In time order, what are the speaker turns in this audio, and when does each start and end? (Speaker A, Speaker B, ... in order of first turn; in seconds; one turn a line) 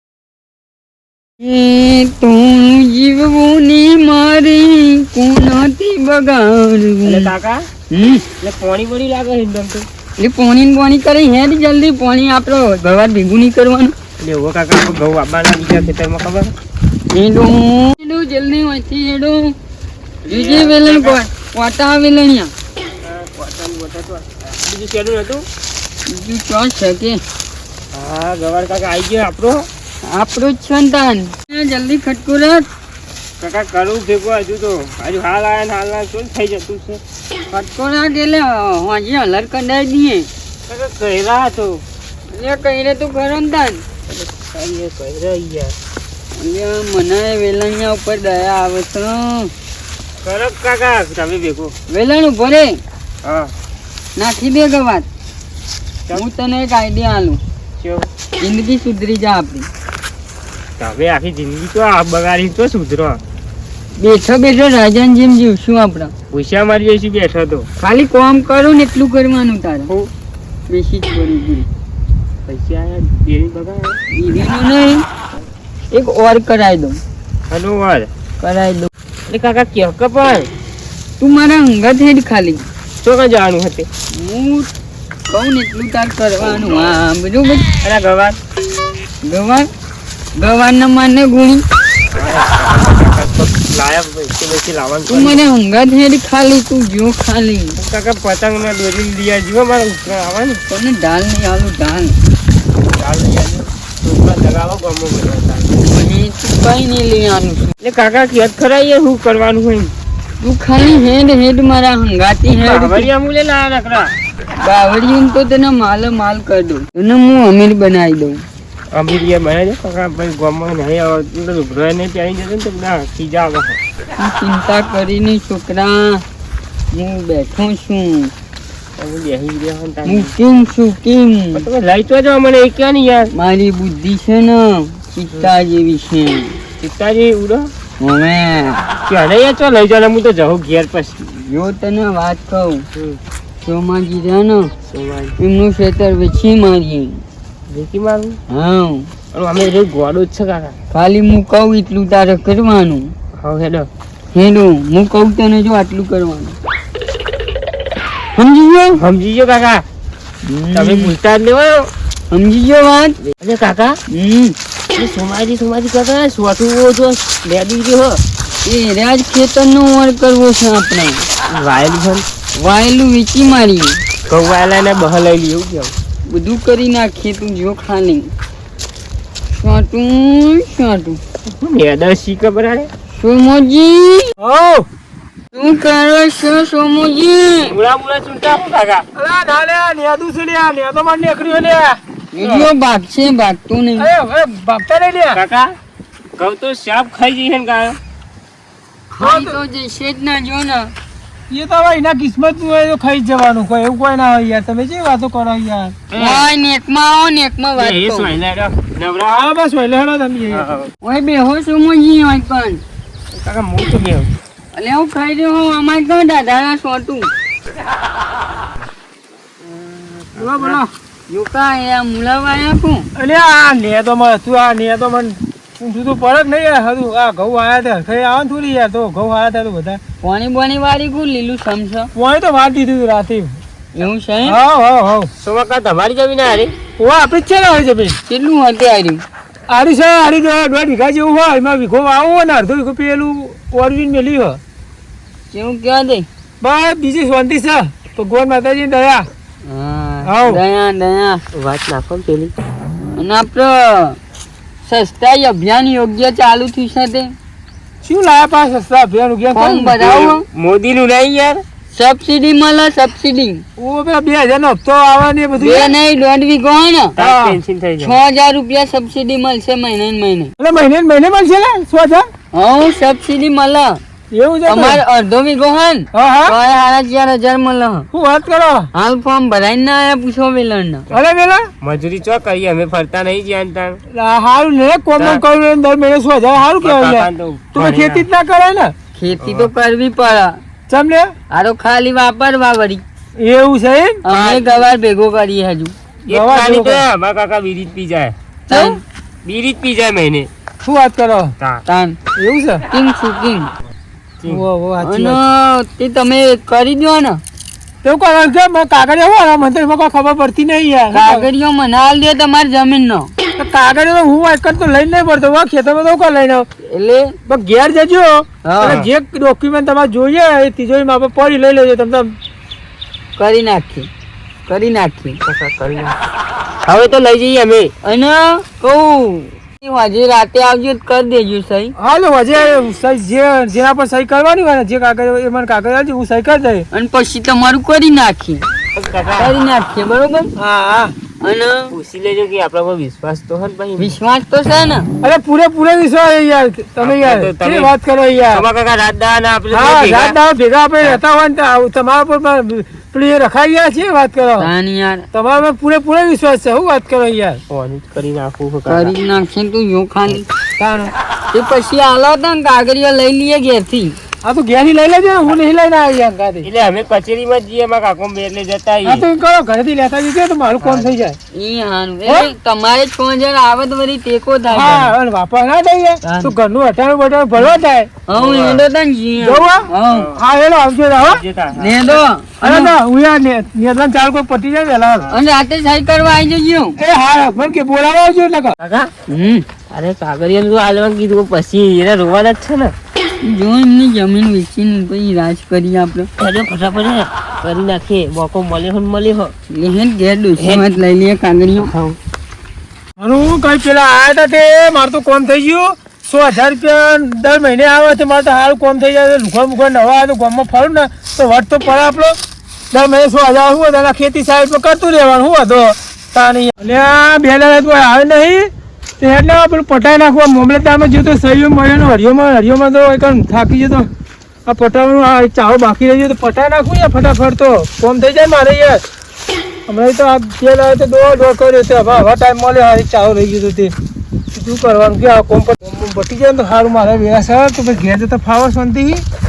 Speaker A: 1.4-7.3
Speaker B: 7.0-7.7
Speaker A: 7.9-8.2
Speaker B: 8.4-9.9
Speaker A: 10.2-13.9
Speaker B: 14.2-16.5
Speaker A: 17.1-19.6
Speaker B: 20.2-21.2
Speaker A: 20.3-22.5
Speaker B: 23.0-25.5
Speaker A: 26.1-27.2
Speaker B: 27.9-29.6
Speaker A: 30.0-32.7
Speaker B: 33.4-37.0
Speaker A: 37.5-40.3
Speaker B: 40.7-41.8
Speaker A: 42.3-43.9
Speaker B: 44.1-45.8
Speaker A: 46.4-49.5
Speaker B: 50.2-51.7
Speaker A: 51.9-52.8
Speaker B: 53.2-53.5
Speaker A: 54.2-55.1
Speaker A: 56.1-57.4
Speaker B: 57.8-58.1
Speaker A: 58.4-59.7
Speaker B: 60.8-63.2
Speaker A: 64.0-66.1
Speaker B: 66.3-67.7
Speaker A: 67.8-70.1
Speaker A: 70.7-71.7
Speaker B: 72.5-74.0
Speaker A: 74.1-75.0
Speaker A: 75.9-77.0
Speaker B: 77.5-78.1
Speaker A: 78.4-78.9
Speaker B: 79.3-80.5
Speaker A: 81.2-82.6
Speaker B: 83.0-83.9
Speaker A: 84.1-84.7
Speaker A: 85.3-87.7
Speaker B: 87.8-88.4
Speaker A: 89.2-89.7
Speaker A: 90.4-91.6
Speaker B: 92.1-95.4
Speaker A: 95.1-97.8
Speaker B: 97.8-100.6
Speaker A: 100.7-102.2
Speaker B: 102.9-105.8
Speaker A: 105.8-107.7
Speaker B: 107.8-109.9
Speaker A: 110.4-113.1
Speaker B: 112.5-114.1
Speaker A: 114.6-118.4
Speaker B: 118.9-123.8
Speaker A: 124.2-126.2
Speaker A: 126.9-128.3
Speaker B: 129.0-130.3
Speaker A: 130.1-131.7
Speaker B: 131.6-133.3
Speaker A: 133.3-136.6
Speaker B: 136.8-137.7
Speaker A: 138.0-138.9
Speaker B: 139.1-141.2
Speaker A: 141.3-142.8
Speaker A: 143.6-144.7
Speaker B: 144.9-145.3
Speaker A: 145.4-147.2
Speaker B: 147.7-148.4
Speaker A: 148.5-149.1
Speaker B: 149.3-150.8
Speaker A: 150.9-153.1
Speaker B: 153.4-153.9
Speaker A: 154.3-156.6
Speaker A: 158.3-159.0
Speaker B: 158.9-159.8
Speaker A: 160.4-161.2
Speaker B: 160.7-161.9
Speaker A: 162.3-163.2
Speaker B: 163.3-164.0
Speaker A: 164.1-164.6
Speaker B: 164.9-168.2
Speaker A: 168.6-171.3
Speaker B: 171.4-172.2
Speaker A: 172.6-174.0
Speaker B: 174.3-175.9
Speaker A: 176.3-178.3
Speaker A: 179.5-181.2
Speaker B: 181.5-182.9
Speaker A: 183.1-184.3
Speaker C: 184.4-184.9
Speaker A: 185.5-187.7
Speaker B: 187.6-189.1
Speaker C: 189.2-192.0
Speaker A: 192.3-194.1
Speaker B: 192.4-192.7
Speaker C: 194.0-195.4
Speaker B: 195.3-195.7
Speaker B: 196.4-198.0
Speaker A: 199.1-200.9
Speaker C: 199.2-199.6
Speaker C: 201.5-205.9
Speaker B: 206.1-206.5
Speaker A: 206.2-208.3
Speaker B: 207.8-209.4
Speaker C: 209.3-210.7
Speaker B: 210.5-210.9
Speaker A: 211.0-212.8
Speaker B: 213.3-214.3
Speaker A: 214.7-217.3
Speaker B: 219.7-220.8
Speaker C: 220.4-220.8
Speaker A: 220.5-223.1
Speaker C: 223.2-230.0
Speaker A: 230.2-232.1
Speaker C: 232.2-233.6
Speaker A: 233.9-234.6
Speaker C: 234.4-235.3
Speaker B: 235.4-236.7
Speaker C: 237.0-238.2
Speaker A: 238.3-239.2
Speaker C: 239.7-244.6
Speaker A: 245.5-246.3
Speaker C: 246.6-249.3
Speaker A: 249.7-251.4
Speaker C: 250.2-250.6
Speaker B: 251.5-252.5
Speaker A: 253.2-254.2
Speaker A: 254.8-257.3
Speaker C: 258.0-260.0
Speaker A: 259.5-260.4
Speaker B: 260.0-261.6
Speaker A: 261.9-263.6
Speaker C: 263.8-265.9
Speaker A: 265.6-267.1
Speaker B: 267.2-268.2
Speaker C: 267.2-267.6
Speaker A: 268.0-270.5
Speaker C: 270.6-272.3
Speaker A: 272.5-274.0
Speaker C: 274.3-275.0
Speaker A: 274.7-278.1
Speaker C: 276.1-276.6
Speaker C: 278.1-278.9
Speaker A: 278.9-281.1
Speaker C: 281.1-281.6
Speaker B: 281.8-284.0
Speaker C: 284.1-288.9
Speaker B: 285.2-285.4
Speaker B: 286.8-288.3
Speaker A: 289.1-290.6
Speaker B: 289.4-289.7
Speaker C: 290.9-291.3
Speaker A: 291.5-293.0
Speaker C: 293.4-294.7
Speaker A: 294.2-295.9
Speaker B: 296.3-298.4
Speaker C: 296.3-297.1
Speaker A: 298.7-299.0
Speaker C: 298.7-299.0
Speaker B: 299.4-300.5
Speaker C: 300.8-301.6
Speaker A: 301.9-302.2
Speaker C: 302.4-302.9
Speaker A: 302.9-303.7
Speaker C: 304.4-305.4
Speaker A: 305.0-307.4
Speaker C: 308.0-311.5
Speaker A: 311.1-313.3
Speaker C: 313.6-316.7
Speaker A: 316.9-317.4
Speaker C: 317.5-322.3
Speaker A: 318.7-319.0
Speaker B: 318.8-319.1
Speaker A: 323.4-324.1
Speaker A: 324.7-325.4
Speaker B: 325.4-326.2
Speaker B: 326.8-327.9
Speaker A: 328.0-331.9
Speaker C: 332.0-336.9
Speaker A: 336.9-338.6
Speaker B: 338.9-339.5
Speaker A: 339.4-340.5
Speaker C: 340.6-341.1
Speaker A: 341.4-341.9
Speaker B: 341.9-344.2
Speaker A: 344.0-345.1
Speaker C: 345.2-348.6
Speaker B: 347.0-347.9
Speaker B: 348.5-350.4
Speaker C: 349.7-354.7
Speaker A: 354.6-355.3
Speaker C: 355.3-357.6
Speaker B: 357.7-359.1
Speaker A: 358.9-360.5
Speaker C: 360.8-361.1
Speaker A: 361.5-364.2
Speaker C: 364.4-366.7
Speaker B: 366.6-369.3
Speaker C: 369.1-371.4
Speaker B: 370.8-371.2
Speaker A: 371.5-375.1
Speaker C: 372.3-372.5
Speaker C: 374.7-378.1
Speaker A: 376.2-376.5
Speaker A: 378.3-380.3
Speaker B: 378.3-378.8
Speaker C: 379.4-381.4
Speaker B: 380.1-380.4
Speaker B: 381.2-382.2
Speaker A: 381.8-382.9
Speaker C: 382.6-385.3
Speaker A: 385.3-387.0
Speaker C: 387.0-388.8
Speaker B: 388.8-389.1
Speaker A: 389.3-389.6
Speaker B: 389.9-392.9
Speaker A: 393.4-396.3
Speaker B: 396.4-399.5
Speaker A: 399.7-401.9
Speaker B: 400.6-400.9
Speaker B: 401.8-402.2
Speaker C: 403.2-412.4
Speaker C: 412.9-418.7
Speaker C: 419.2-424.1
Speaker C: 424.7-429.0
Speaker C: 429.9-433.9
Speaker C: 434.5-439.2